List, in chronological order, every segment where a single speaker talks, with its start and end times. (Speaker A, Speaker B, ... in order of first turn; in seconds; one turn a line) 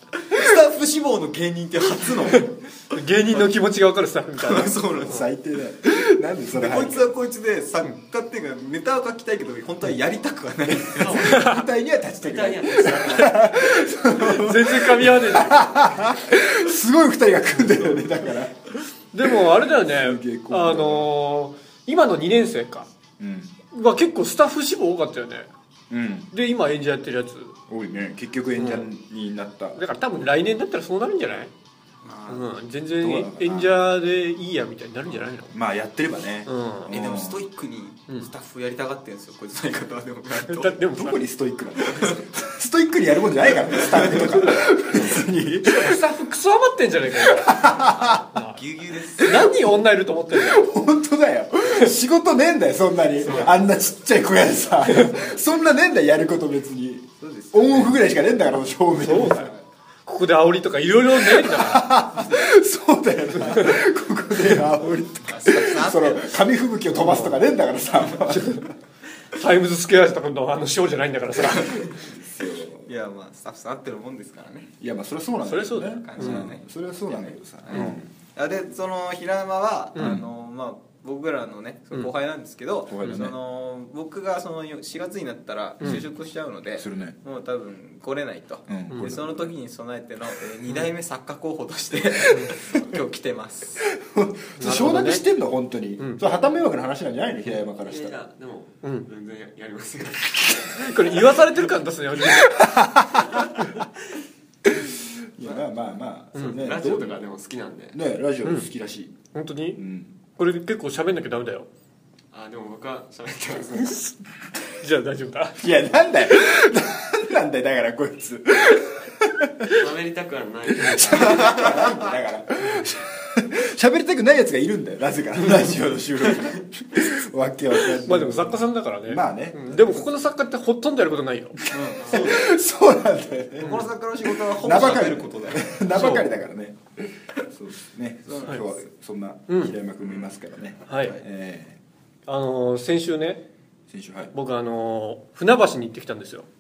Speaker A: 0.2-2.6
Speaker B: 2.3-5.1
Speaker A: 4.4-5.3
Speaker C: 5.0-7.1
Speaker A: 6.5-11.3
Speaker C: 10.7-21.1
Speaker D: 11.0-11.5
Speaker B: 11.2-11.7
Speaker D: 12.2-13.9
Speaker B: 14.0-16.1
Speaker B: 19.1-22.9
Speaker C: 23.2-23.5
Speaker B: 23.7-25.5
Speaker C: 25.9-26.3
Speaker B: 26.3-27.6
Speaker C: 27.7-29.8
Speaker B: 28.6-28.9
Speaker B: 29.8-31.5
Speaker A: 32.0-32.5
Speaker B: 32.3-35.5
Speaker C: 33.0-33.8
Speaker C: 35.5-37.4
Speaker B: 36.5-36.9
Speaker A: 36.9-40.8
Speaker B: 40.5-41.2
Speaker C: 40.9-46.0
Speaker A: 41.8-42.2
Speaker B: 44.3-48.6
Speaker C: 47.2-48.2
Speaker A: 48.0-49.6
Speaker B: 49.2-50.7
Speaker C: 50.3-59.5
Speaker B: 53.2-53.5
Speaker A: 53.2-53.6
Speaker B: 54.9-55.2
Speaker A: 57.2-58.0
Speaker B: 59.0-59.5
Speaker A: 59.1-59.6
Speaker B: 60.1-61.9
Speaker C: 61.2-68.7
Speaker A: 62.1-62.5
Speaker B: 63.4-63.7
Speaker A: 65.2-66.3
Speaker B: 66.9-67.4
Speaker B: 68.2-68.7
Speaker B: 69.3-71.9
Speaker C: 71.6-72.9
Speaker A: 72.9-74.7
Speaker C: 74.8-78.1
Speaker B: 75.5-76.5
Speaker A: 76.0-93.8
Speaker C: 80.0-80.3
Speaker C: 82.9-83.3
Speaker C: 86.8-87.2
Speaker C: 88.7-89.5
Speaker C: 93.9-98.2
Speaker B: 94.6-95.2
Speaker D: 97.8-101.3
Speaker B: 100.8-102.6
Speaker C: 102.3-103.5
Speaker C: 104.7-107.2
Speaker B: 106.3-106.6
Speaker D: 106.4-108.0
Speaker C: 107.9-109.2
Speaker B: 109.3-109.8
Speaker C: 109.8-110.1
Speaker B: 110.4-111.7
Speaker D: 112.3-114.0
Speaker B: 113.8-114.2
Speaker B: 114.8-115.6
Speaker C: 115.6-119.8
Speaker D: 119.7-121.8
Speaker C: 120.8-130.1
Speaker B: 128.1-131.6
Speaker C: 131.7-141.8
Speaker A: 131.7-132.6
Speaker D: 132.0-132.3
Speaker A: 133.6-135.9
Speaker B: 135.9-136.3
Speaker A: 138.3-138.6
Speaker B: 139.5-139.7
Speaker B: 140.9-141.2
Speaker B: 142.3-143.4
Speaker C: 143.9-144.3
Speaker B: 144.3-146.5